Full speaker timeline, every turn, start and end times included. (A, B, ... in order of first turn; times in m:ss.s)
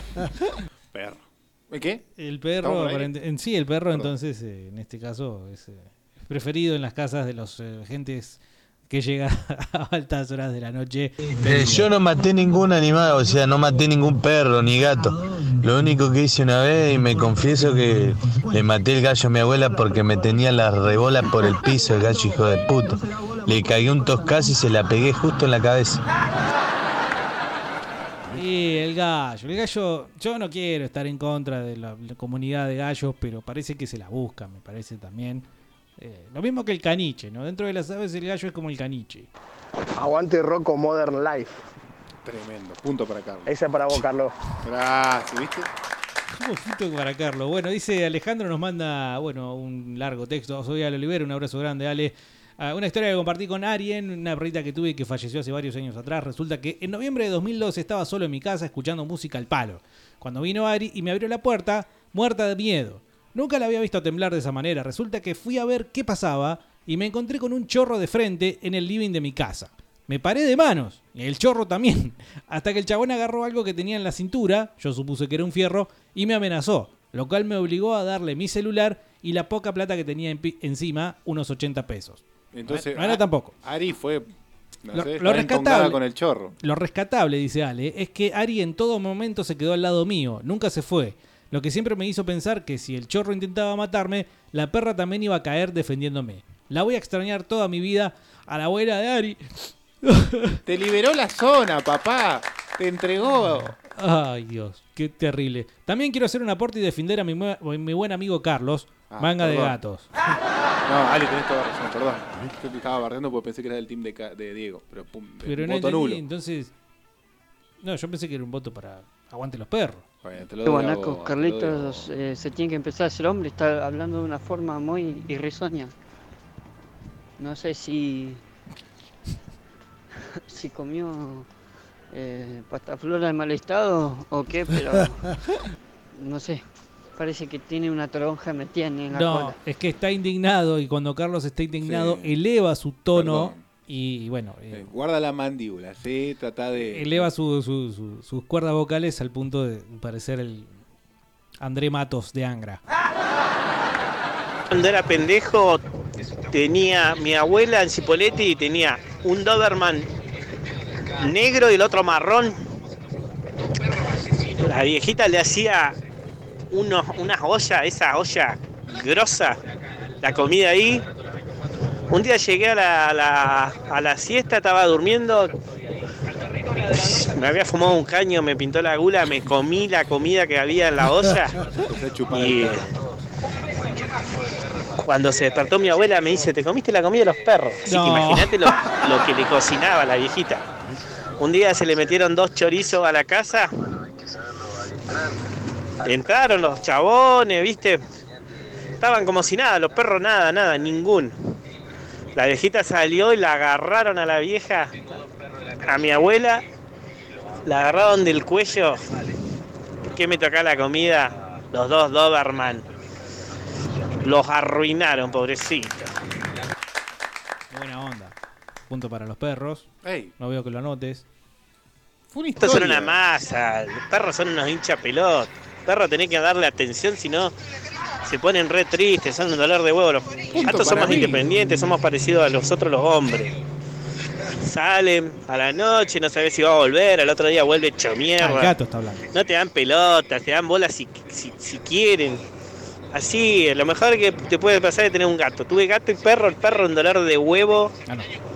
0:00.9-0:02.1 A
0:02.2-0:11.1 B
0:02.6-0:03.1 A
0:11.4-0:26.0 C
0:28.3-0:35.5 B
0:36.0-0:39.3 B
0:40.0-0:41.6 D
0:42.2-0:44.0 A
0:43.5-0:44.3 D
0:44.6-0:45.7 A
0:46.3-1:23.5 B
1:22.5-1:24.3 A
1:24.8-1:26.6 A
1:24.9-1:26.0 B
1:26.6-1:40.6 B
1:40.7-1:43.8 A
1:43.8-1:50.1 B
1:49.1-1:49.8 A
1:50.9-1:56.2 A
1:55.4-1:56.7 B
1:57.8-2:00.0 B
2:00.2-2:02.1 A
2:00.7-2:05.9 E
2:07.4-2:08.4 E
2:10.5-2:11.5 E
2:12.1-2:15.2 E
2:16.1-2:16.6 E
2:17.2-2:19.6 E
2:19.1-2:24.8 B
2:21.8-2:22.4 A
2:23.1-2:23.6 A
2:24.7-2:27.3 A
2:26.9-2:30.7 B
2:31.6-2:32.8 B
2:34.7-2:35.8 F
2:36.5-2:40.1 F
2:41.2-2:42.6 F
2:44.6-2:46.0 F
2:46.7-2:49.6 F
2:50.2-2:51.0 F
2:52.1-2:55.5 F
2:56.9-3:01.6 F
3:01.8-3:03.0 A
3:02.3-3:02.8 F
3:05.0-3:10.6 F
3:07.9-3:08.9 B
3:11.4-3:13.7 F
3:16.0-3:18.0 F
3:19.0-3:21.4 F
3:22.4-3:24.9 F
3:25.8-3:26.6 F
3:27.7-3:29.0 F
3:30.2-3:32.8 F
3:34.2-3:36.1 F
3:37.7-3:38.4 B
3:38.9-3:41.2 B
3:40.0-3:40.3 A
3:42.3-3:43.2 A
3:42.6-3:47.5 F
3:48.2-3:53.6 F
3:50.5-3:51.5 A
3:54.6-3:58.7 F
3:58.4-3:59.3 B
3:59.3-4:02.4 F
4:03.1-4:07.9 F